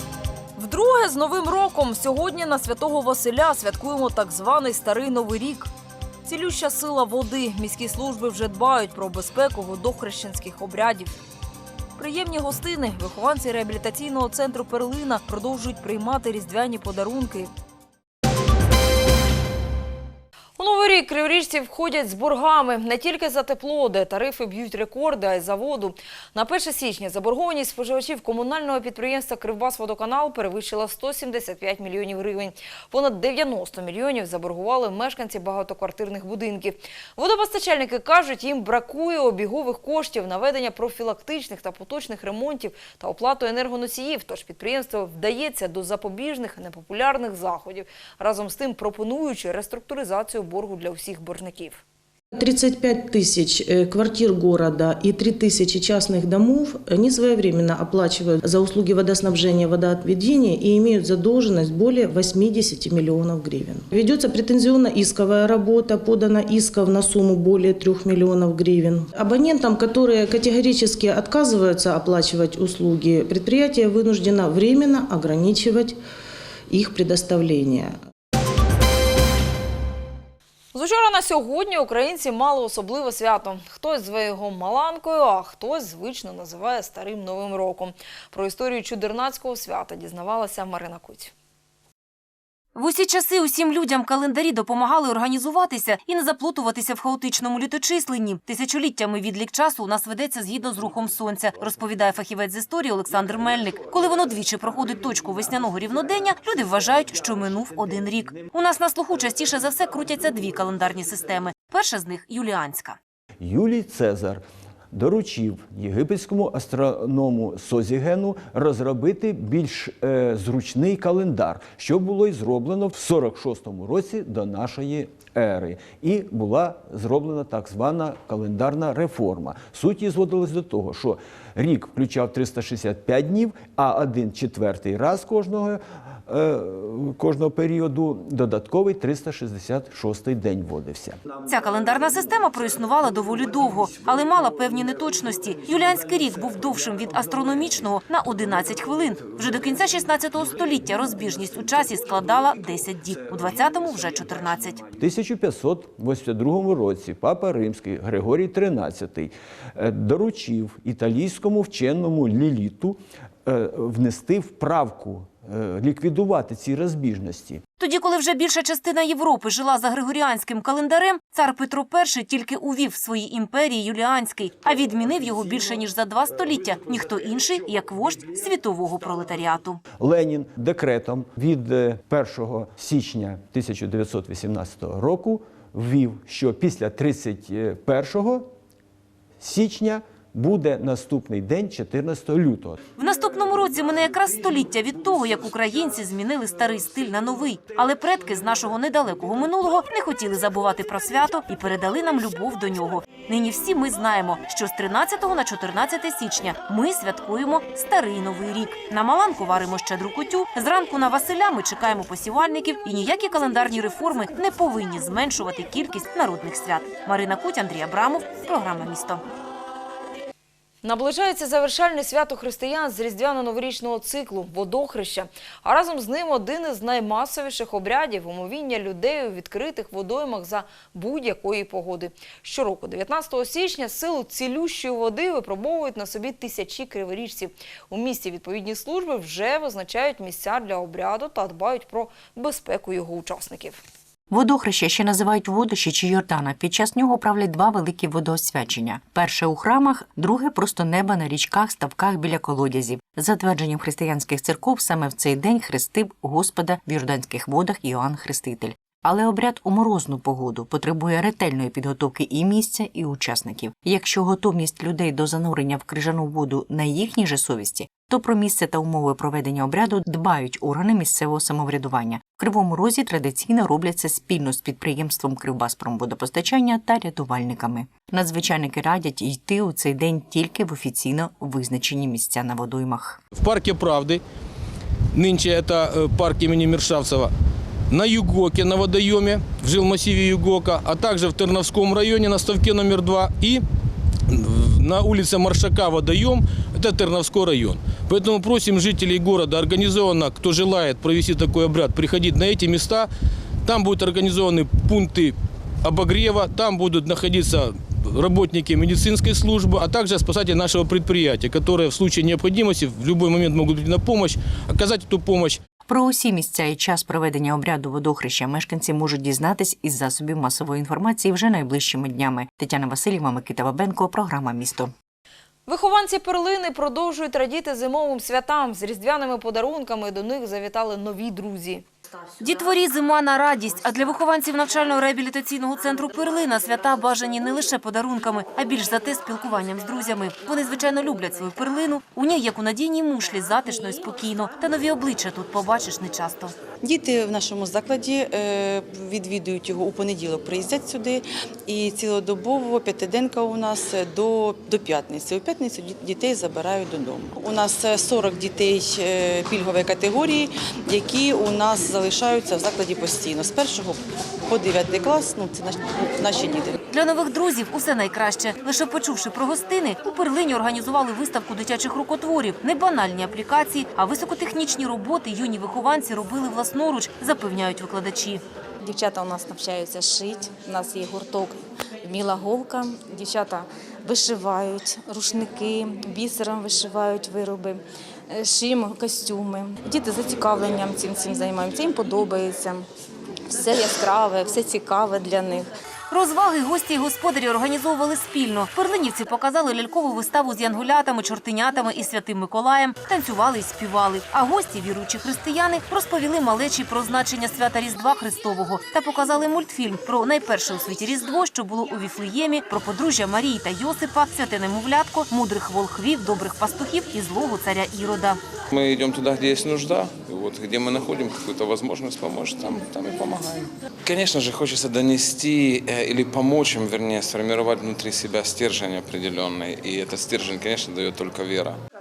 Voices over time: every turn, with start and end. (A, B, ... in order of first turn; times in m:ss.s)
0:00.6-0:05.7 A
0:06.2-0:11.2 A
0:12.0-0:17.5 A
0:20.6-0:51.8 A
0:52.4-1:16.0 B
1:16.7-1:17.9 B
1:20.7-1:31.3 A
1:32.8-1:53.0 C
1:53.4-2:21.2 D
2:21.5-2:34.8 C
2:35.0-2:47.6 D
2:47.8-2:59.8 C
3:00.0-3:08.5 D
3:09.4-3:12.8 D
3:13.0-3:39.2 C
3:40.8-4:03.8 A
4:04.3-4:43.2 E
4:43.3-4:44.2 F
4:45.1-4:47.3 F
4:47.9-4:53.6 F
4:54.3-5:03.1 F
5:03.7-5:15.6 F
5:15.9-5:24.9 E
5:25.7-5:31.8 A
5:32.4-5:46.5 C
5:46.8-6:06.8 G
6:06.9-6:18.4 C
6:18.8-6:32.9 H
6:33.5-6:35.7 H
6:36.1-6:58.4 C
6:58.7-7:11.8 I